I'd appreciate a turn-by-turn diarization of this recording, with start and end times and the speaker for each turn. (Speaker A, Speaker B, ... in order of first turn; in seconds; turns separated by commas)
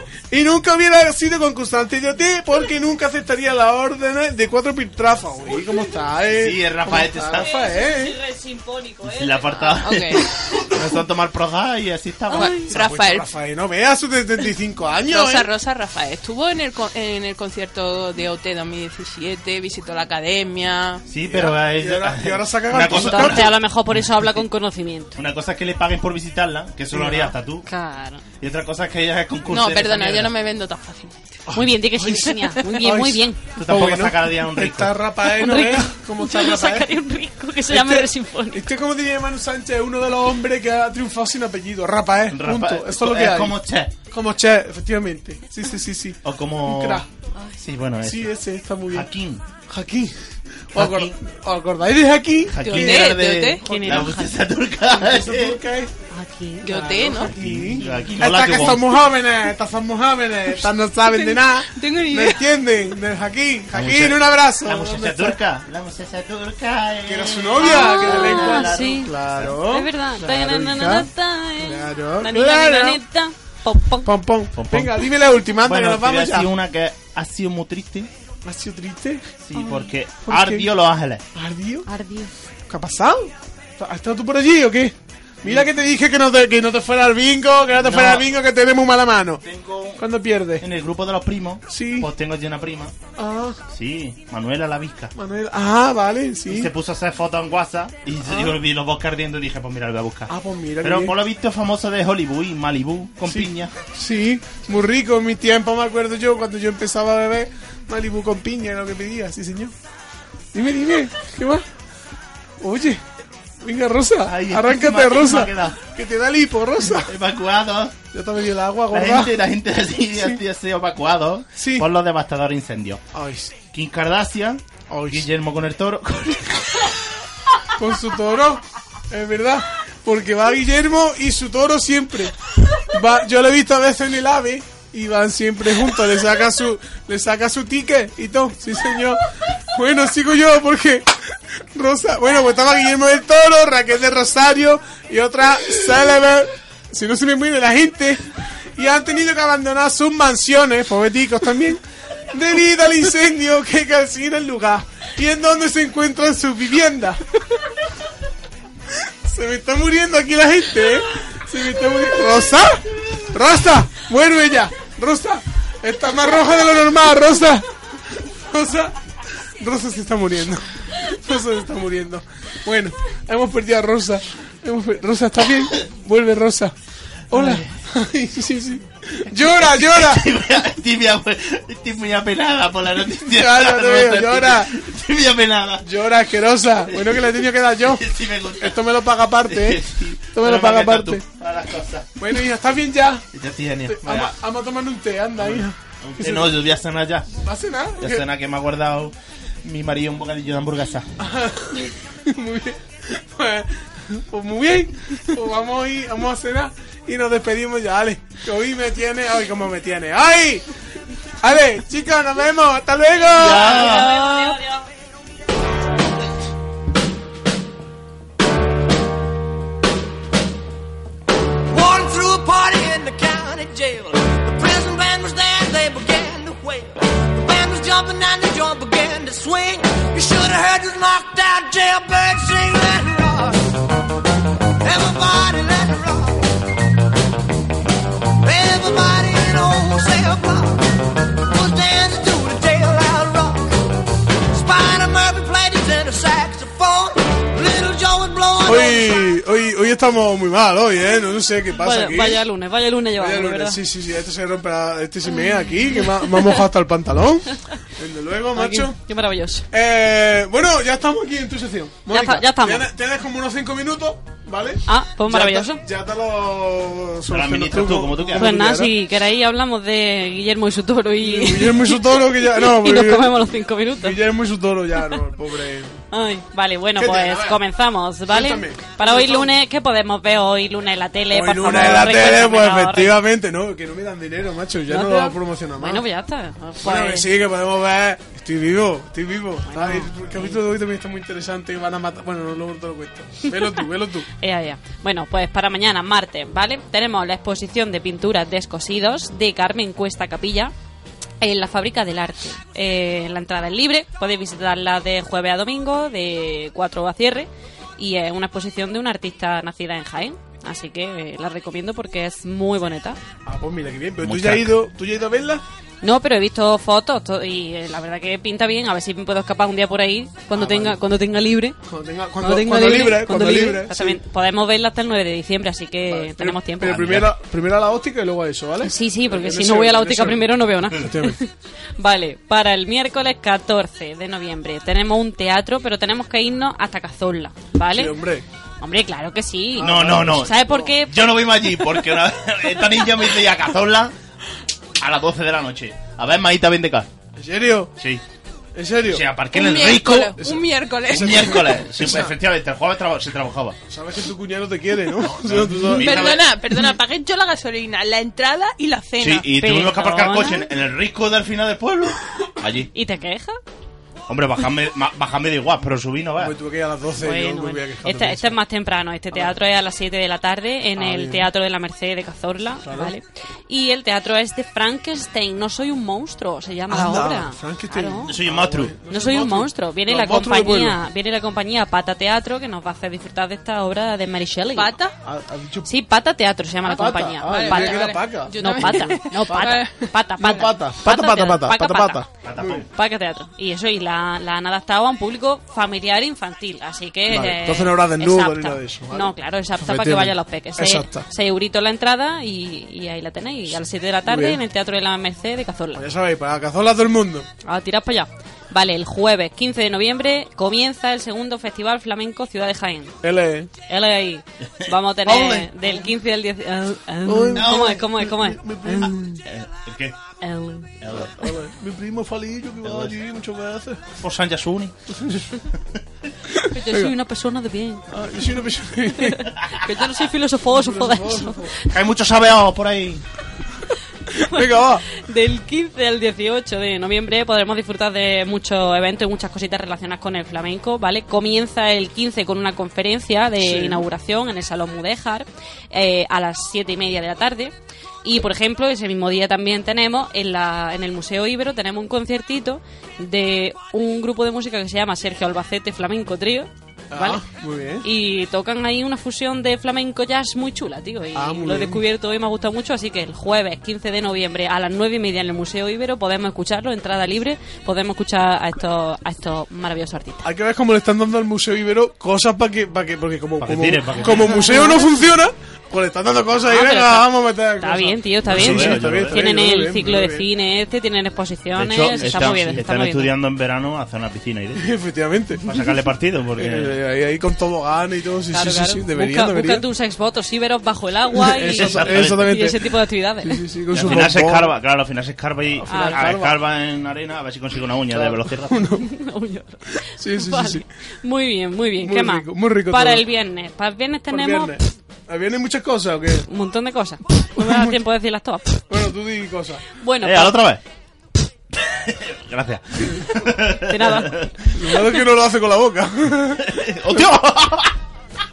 Speaker A: 0.3-8.2, Speaker B: 6.3-7.5, Speaker C: 7.4-9.9, Speaker B: 9.0-12.6, Speaker D: 9.8-10.2, Speaker C: 12.3-12.7, Speaker D: 12.3-13.3, Speaker A: 12.7-15.5, Speaker D: 15.1-21.0, Speaker B: 21.1-24.4, Speaker A: 21.2-23.5, Speaker C: 22.9-25.1, Speaker B: 25.1-27.7, Speaker A: 26.9-27.3, Speaker C: 27.7-28.2, Speaker B: 28.4-30.3, Speaker D: 29.4-31.4, Speaker A: 31.5-36.9, Speaker C: 31.5-33.4, Speaker B: 33.5-35.0, Speaker C: 35.3-38.6, Speaker A: 37.7-43.5, Speaker B: 42.3-43.9, Speaker A: 44.1-47.1, Speaker B: 46.2-47.0, Speaker B: 47.6-48.3, Speaker A: 48.0-49.1, Speaker B: 48.9-49.4, Speaker A: 49.7-50.1, Speaker A: 50.7-53.0, Speaker B: 50.7-51.1, Speaker B: 52.5-55.6, Speaker D: 52.6-53.6, Speaker C: 53.6-54.3, Speaker A: 53.7-54.1, Speaker A: 54.9-55.9, Speaker C: 56.1-57.0, Speaker D: 56.6-57.3, Speaker A: 56.6-65.4, Speaker B: 57.3-59.0, Speaker C: 57.8-58.2, Speaker D: 61.0-62.6, Speaker B: 63.7-69.6, Speaker A: 67.0-73.0, Speaker C: 67.6-69.1, Speaker C: 69.6-74.1, Speaker A: 74.0-76.5, Speaker B: 74.5-75.0, Speaker B: 75.6-78.1, Speaker A: 78.4-80.7, Speaker B: 79.4-81.2, Speaker A: 81.3-81.9, Speaker C: 81.8-82.3, Speaker A: 82.7-89.4, Speaker B: 87.8-88.2, Speaker B: 89.4-90.0, Speaker A: 90.0-90.6, Speaker B: 90.6-92.9, Speaker A: 91.7-92.1, Speaker A: 93.2-93.6, Speaker B: 93.7-95.1, Speaker A: 95.1-96.7, Speaker B: 96.5-103.7, Speaker A: 98.2-98.6, Speaker A: 100.3-101.2, Speaker A: 103.2-109.7, Speaker A: 110.5-111.6, Speaker A: 112.6-113.0, Speaker A: 113.6-117.1, Speaker B: 114.2-115.8, Speaker B: 116.9-118.0, Speaker A: 118.1-119.3, Speaker B: 118.9-123.0, Speaker A: 121.6-121.9, Speaker A: 123.1-123.5, Speaker B: 123.7-126.9, Speaker A: 124.9-125.3, Speaker A: 127.8-141.1, Speaker A: 141.7-148.2, Speaker A: 148.8-157.2, Speaker A: 158.9-168.9, Speaker A: 169.6-176.7, Speaker A: 177.3-180.3, Speaker B: 177.3-177.7, Speaker B: 179.6-185.9, Speaker A: 183.3-184.7, Speaker A: 185.8-191.2, Speaker B: 186.9-188.9, Speaker B: 189.4-192.2, Speaker A: 192.2-193.3, Speaker B: 193.3-194.3, Speaker A: 193.8-196.6, Speaker B: 195.4-197.3, Speaker A: 197.4-198.2, Speaker B: 198.0-201.1, Speaker A: 201.2-210.7, Speaker A: 211.4-214.0, Speaker B: 213.3-214.6, Speaker C: 213.4-214.8, Speaker E: 221.7-233.8, Speaker E: 234.8-236.5, Speaker E: 238.4-243.8, Speaker E: 244.5-249.2, Speaker A: 248.6-252.4, Speaker C: 251.7-253.8, Speaker A: 253.1-259.0, Speaker C: 255.3-256.6, Speaker C: 258.5-259.6, Speaker A: 259.7-268.9, Speaker C: 262.1-262.9, Speaker C: 264.9-265.8, Speaker B: 267.3-268.6, Speaker C: 268.3-274.2, Speaker A: 271.2-276.0, Speaker C: 276.1-283.1, Speaker A: 276.9-277.6, Speaker A: 278.3-279.5, Speaker A: 281.3-286.0, Speaker C: 284.9-287.3, Speaker A: 286.8-294.3, Speaker C: 289.7-290.6, Speaker C: 294.4-300.7, Speaker C: 301.4-313.2, Speaker A: 313.4-315.6, Speaker B: 314.2-314.7, Speaker C: 316.0-321.8, Speaker A: 320.5-321.0, Speaker A: 321.8-324.2, Speaker C: 322.4-327.1, Speaker A: 326.0-331.4, Speaker B: 326.8-327.3, Speaker C: 328.8-338.1, Speaker A: 337.8-338.4, Speaker C: 338.8-341.3, Speaker A: 339.8-340.9, Speaker B: 339.8-344.1, Speaker B: 345.0-347.1, Speaker A: 347.4-347.9, Speaker A: 348.7-349.2, Speaker B: 349.1-350.4, Speaker D: 349.5-351.7, Speaker A: 350.4-352.3, Speaker B: 351.1-353.8, Speaker A: 353.9-356.4, Speaker B: 355.2-356.4, Speaker D: 355.9-359.5, Speaker B: 359.2-362.9, Speaker C: 359.6-360.7, Speaker C: 362.9-363.6, Speaker B: 364.3-366.5, Speaker A: 366.4-368.6, Speaker C: 367.2-378.4, Speaker A: 370.9-371.5, Speaker A: 372.8-373.1, Speaker A: 376.9-381.0, Speaker B: 378.2-379.0, Speaker C: 379.1-385.0, Speaker D: 384.7-385.1, Speaker A: 385.2-385.9, Speaker C: 385.8-392.2, Speaker A: 386.9-392.8, Speaker D: 386.9-390.1, Speaker B: 392.4-392.9, Speaker C: 392.9-406.0, Speaker A: 397.3-401.3, Speaker A: 404.2-404.6, Speaker A: 405.9-407.5, Speaker C: 407.6-413.2, Speaker A: 413.2-413.7, Speaker C: 413.9-419.4, Speaker B: 414.8-415.7, Speaker A: 417.2-419.4, Speaker B: 417.5-418.0, Speaker B: 419.4-420.2, Speaker C: 420.4-420.9, Speaker B: 421.0-421.5, Speaker A: 421.1-424.0, Speaker B: 422.8-423.1, Speaker B: 424.2-424.9, Speaker A: 425.1-425.6, Speaker A: 426.5-427.1, Speaker C: 426.7-428.1, Speaker A: 428.1-429.5, Speaker C: 429.1-431.9, Speaker A: 430.7-431.8, Speaker B: 431.9-433.2, Speaker A: 434.3-435.0, Speaker C: 434.4-457.4, Speaker A: 443.6-444.1, Speaker A: 457.1-458.1, Speaker C: 458.0-470.4, Speaker A: 461.3-462.0, Speaker A: 470.4-480.5, Speaker B: 473.6-474.9, Speaker C: 474.1-475.2, Speaker C: 476.6-483.3, Speaker B: 478.4-479.4, Speaker B: 481.7-484.9, Speaker A: 482.3-482.8, Speaker A: 484.8-485.6, Speaker B: 485.6-486.9, Speaker A: 486.6-489.8, Speaker C: 488.5-494.2, Speaker A: 491.3-494.7, Speaker B: 491.7-492.8, Speaker B: 493.9-498.9, Speaker A: 495.7-496.6, Speaker C: 495.9-496.3, Speaker A: 498.1-499.0, Speaker C: 499.0-504.8, Speaker A: 500.0-500.8, Speaker A: 502.0-503.2, Speaker A: 504.3-506.5, Speaker C: 506.5-508.8, Speaker A: 507.6-508.0, Speaker A: 508.9-509.8, Speaker C: 510.0-510.6, Speaker B: 510.2-510.8, Speaker B: 511.7-514.7, Speaker C: 513.9-514.5, Speaker A: 514.7-516.7, Speaker B: 516.6-517.9